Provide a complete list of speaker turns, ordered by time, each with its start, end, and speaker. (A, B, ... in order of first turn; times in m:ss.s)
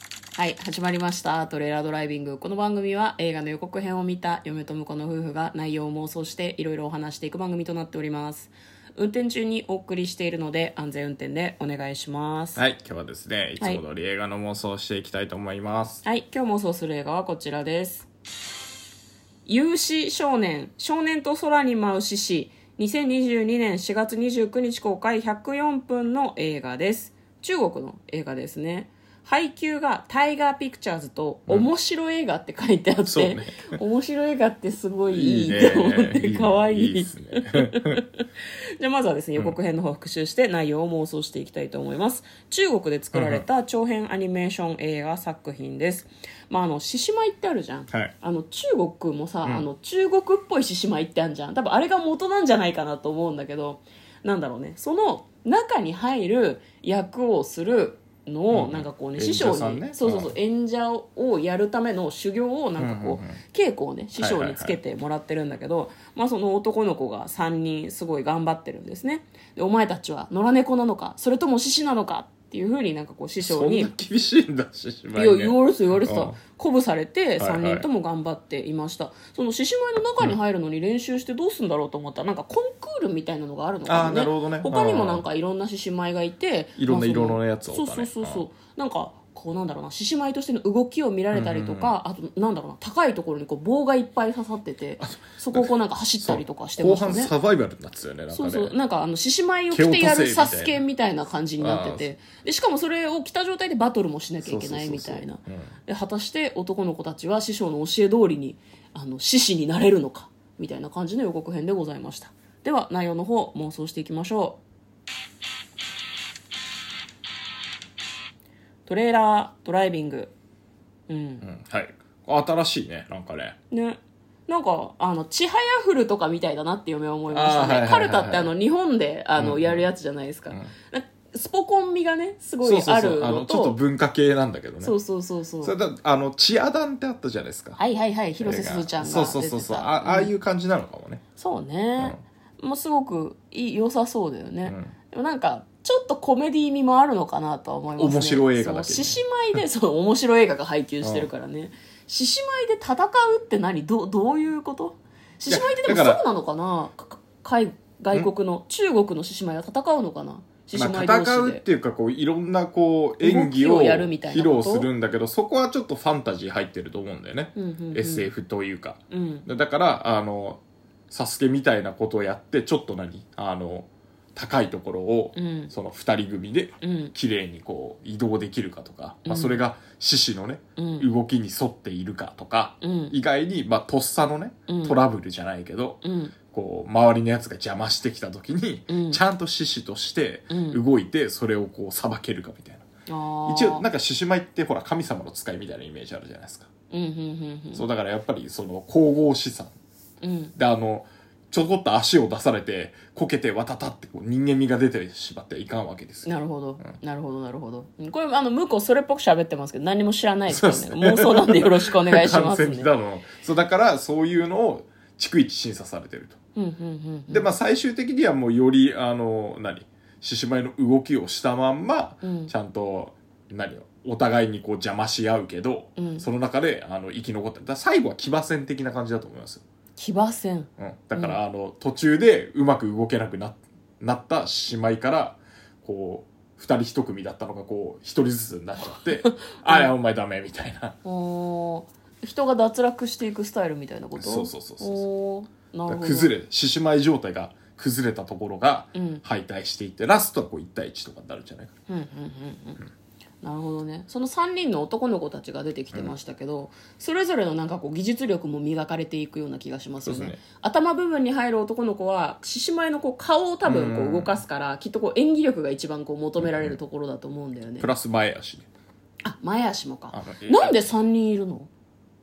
0:00.4-0:12.6 A
0:12.6-0:16.0 B
0:16.0-0:18.1 A
0:19.4-0:38.2 A
0:33.0-0:33.8 B
0:35.1-0:38.0 B
0:38.8-1:13.9 A
0:43.1-0:43.4 B
0:58.5-1:00.3 B
1:02.8-1:03.4 B
1:04.2-1:04.8 B
1:13.4-1:16.4 B
1:15.1-1:37.3 A
1:17.4-1:17.8 B
1:23.8-1:25.2 B
1:26.8-1:28.5 B
1:31.3-1:32.0 B
1:35.0-1:38.7 B
1:38.3-1:54.6 A
1:39.7-1:40.8 B
1:41.6-1:42.1 B
1:44.4-1:45.7 B
1:58.8-2:00.3 A
2:01.1-2:01.5 A
2:01.4-2:03.6 B
2:03.7-2:13.8 A
2:07.3-2:08.5 B
2:09.4-2:09.9 B
2:12.6-2:14.9 B
2:14.8-2:15.7 A
2:15.6-2:17.8 B
2:17.8-2:20.3 A
2:18.4-2:21.2 B
2:21.4-2:41.6 A
2:24.6-2:24.9 B
2:28.0-2:29.2 B
2:31.0-2:31.3 B
2:35.5-2:36.2 B
2:40.7-3:06.0 B
2:43.2-2:44.9 A
2:47.5-2:48.3 A
2:49.1-2:49.5 A
2:55.3-2:55.7 A
2:56.8-2:57.1 A
2:59.2-2:59.6 A
3:00.8-3:01.0 A
3:02.8-3:03.1 A
3:04.7-3:05.0 A
3:06.0-3:06.3 A
3:06.5-3:12.8 B
3:08.9-3:09.2 A
3:10.5-3:10.8 A
3:13.1-3:13.9 A
3:13.5-3:16.7 B
3:16.9-3:17.8 A
3:17.7-3:19.7 B
3:20.2-3:20.5 A
3:20.5-3:26.8 B
3:26.2-3:32.9 A
3:30.5-3:36.4 B
3:36.5-3:37.5 A
3:37.3-3:49.6 B
3:42.2-3:42.5 A
3:46.0-3:46.3 A
3:50.0-3:51.4 A
3:50.8-4:01.0 B
3:58.8-3:59.9 A
4:01.0-4:06.3 A
4:04.2-4:05.0 B
4:05.9-4:11.7 B
4:08.9-4:09.2 A
4:11.9-4:12.8 A
4:13.4-4:27.9 A
4:20.0-4:20.4 B
4:23.6-4:24.4 B
4:26.4-4:26.8 B
4:27.8-4:28.7 B
4:29.2-4:31.7 A
4:30.1-4:30.9 B